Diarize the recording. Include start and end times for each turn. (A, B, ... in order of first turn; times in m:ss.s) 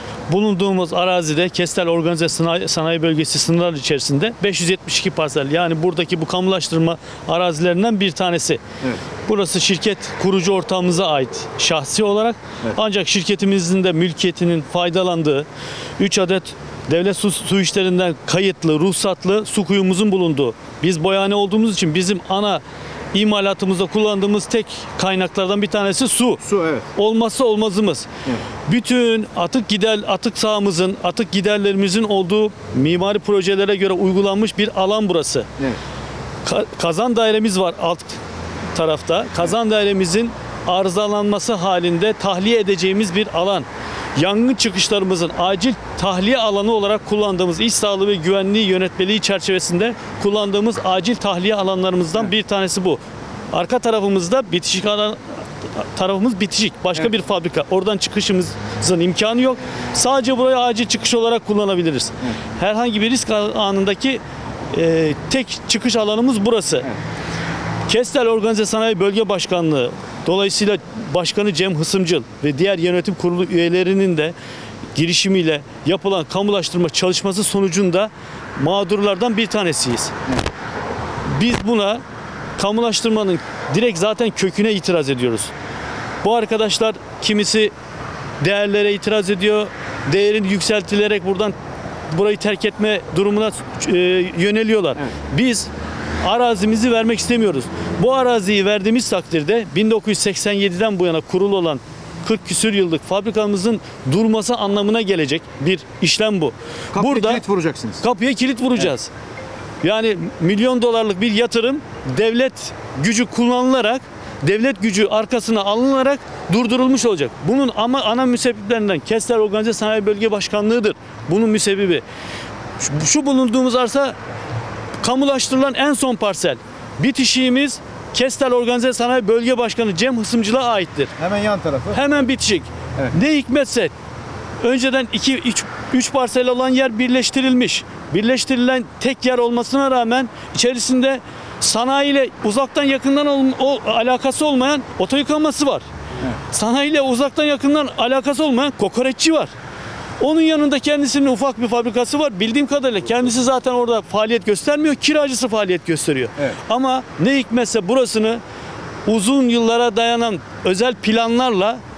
0:00.3-0:08.6 A
0:09.2-0:15.4 A
0:16.0-0:22.6 A
0:23.1-0:26.4 A
0:26.4-0:26.8 B
0:26.9-0:28.1 A
0:28.7-0:35.5 A
0:36.4-0:38.2 A
0:38.7-0:43.6 A
0:44.2-0:53.0 A
0:53.5-0:55.2 A
0:55.8-1:04.2 A
1:04.7-1:06.9 A
1:07.9-1:14.3 A
1:14.9-1:20.1 A
1:21.4-1:22.0 A
1:22.6-1:25.5 A
1:26.2-1:27.7 A
1:28.4-1:31.5 A
1:32.1-1:35.7 A
1:36.2-1:47.4 A
1:46.9-1:48.0 B
1:48.0-1:49.1 A
1:49.8-2:02.0 A
2:02.8-2:04.2 A
2:05.0-2:11.1 A
2:11.2-2:12.0 B
2:11.9-2:13.9 A
2:14.6-2:25.8 A
2:26.5-2:29.5 A
2:30.2-2:38.4 A
2:39.0-2:41.8 A